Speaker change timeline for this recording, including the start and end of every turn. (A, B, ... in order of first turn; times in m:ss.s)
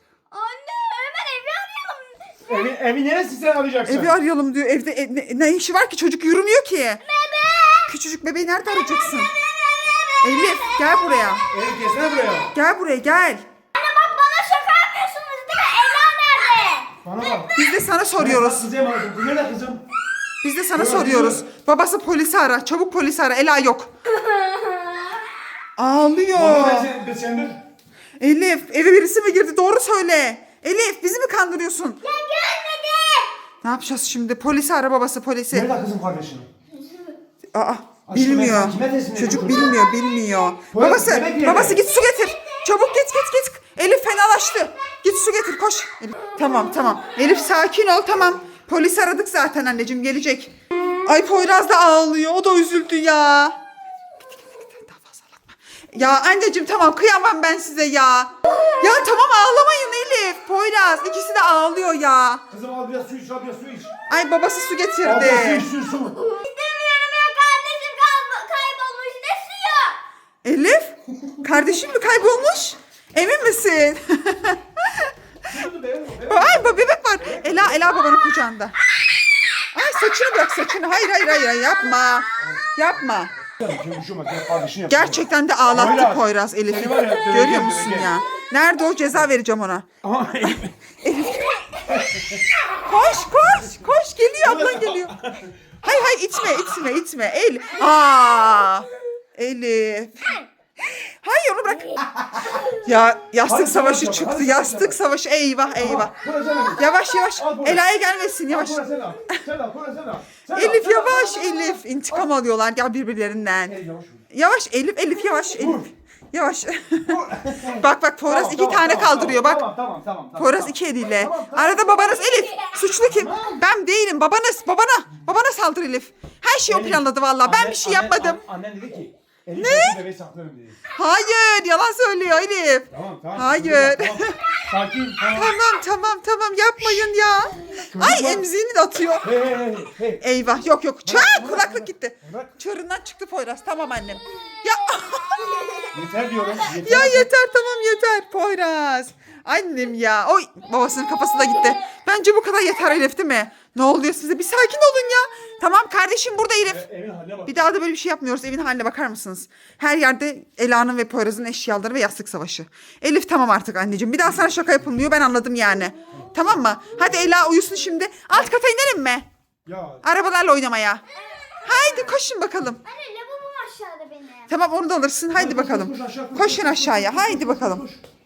0:00.3-0:02.6 A
0:02.4-0:04.2 B
0:03.9-0:07.0 C
0:07.0-0:07.9 A
0:07.9-0:09.3 C
0:08.9-0:11.5 A
0:10.2-0:11.5 C
0:11.5-0:12.6 B
0:12.5-0:13.4 C
0:13.7-0:16.9 A
0:17.0-0:17.5 B
0:17.6-0:18.7 C
0:18.2-0:19.8 B
0:20.4-0:23.9 C
0:20.7-0:21.4 B
0:24.1-0:25.4 A
0:25.8-0:26.9 C
0:26.3-0:27.6 B
0:28.2-0:32.0 C
0:32.0-0:33.3 A
0:33.6-0:35.7 C
0:35.5-0:36.5 B
0:37.5-0:53.6 C
0:38.1-0:39.8 B
0:40.7-0:41.8 B
0:41.9-0:42.8 A
0:54.2-1:02.5 C
0:58.5-0:59.1 A
1:02.5-1:04.0 B
1:04.1-1:05.7 C
1:05.0-1:06.2 B
1:05.9-1:10.0 A
1:10.4-1:15.1 C
1:15.4-1:17.9 B
1:16.3-1:18.8 C
1:19.7-1:23.3 C
1:23.6-1:28.2 B
1:24.9-1:29.9 C
1:30.0-1:30.8 B
1:31.0-1:31.8 C
1:31.9-1:32.5 B
1:32.8-1:35.1 C
1:34.4-1:35.5 B
1:35.8-1:42.0 C
1:42.2-1:42.5 B
1:42.8-1:46.2 C
1:43.4-1:45.0 B
1:45.8-1:47.8 B
1:46.8-1:48.9 C
1:48.5-1:52.3 B
1:50.5-1:53.8 C
1:53.7-1:54.2 B
1:54.3-1:57.2 C
1:55.6-1:55.9 B
1:57.1-2:03.6 B
1:57.7-1:59.6 C
2:00.4-2:08.4 C
2:06.7-2:10.8 B
2:09.6-2:10.0 C
2:10.9-2:14.4 C
2:12.9-2:15.5 B
2:15.3-2:19.3 C
2:17.8-2:18.5 B
2:19.2-2:20.2 B
2:20.2-2:25.9 C
2:21.0-2:22.5 B
2:25.9-2:27.3 B
2:26.7-2:36.8 C
2:36.7-2:37.7 B
2:37.5-2:49.3 C
2:46.2-2:46.4 B
2:49.7-2:50.1 B
2:50.0-2:51.0 C
2:51.2-2:52.2 A
2:51.6-2:52.8 C
2:52.8-2:54.5 A
2:54.5-2:57.8 C
2:55.3-2:58.0 B